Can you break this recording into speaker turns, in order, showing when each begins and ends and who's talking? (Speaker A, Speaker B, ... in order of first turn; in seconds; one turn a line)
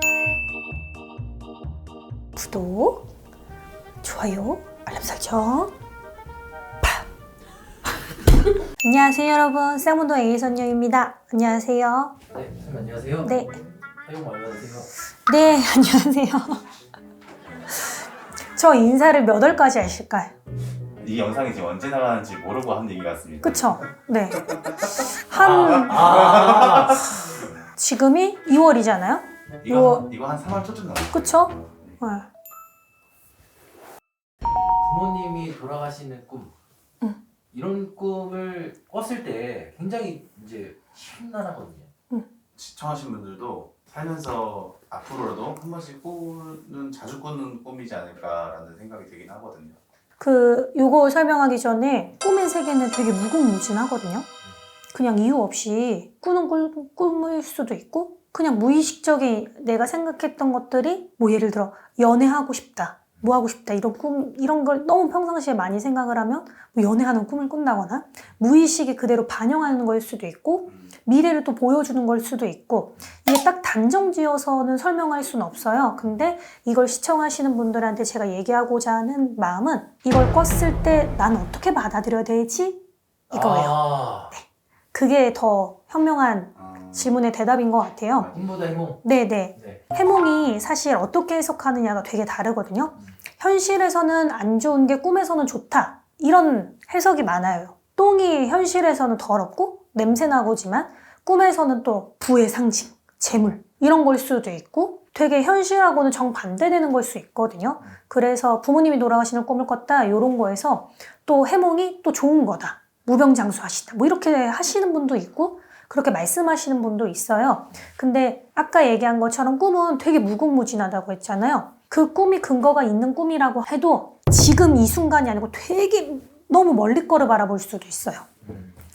Speaker A: 2.3-3.0
Speaker A: 4.0-5.7
Speaker A: 8.8-12.2
Speaker B: 12.3-14.9
Speaker A: 13.2-13.6
Speaker A: 15.3-16.6
Speaker A: 18.5-20.3
Speaker C: 21.0-23.8
Speaker A: 23.4-26.4
Speaker B: 25.3-27.1
Speaker C: 25.8-27.4
Speaker A: 27.8-30.0
Speaker C: 29.6-31.3
Speaker A: 31.1-32.3
Speaker B: 34.8-36.5
Speaker B: 37.5-41.9
Speaker C: 42.5-49.8
Speaker A: 50.2-54.3
Speaker A: 54.9-83.8
Speaker B: 83.3-84.3
Speaker A: 84.3-88.3
Speaker B: 88.2-89.0
Speaker A: 89.0-128.3
Speaker B: 89.5-89.8
Speaker B: 128.4-128.7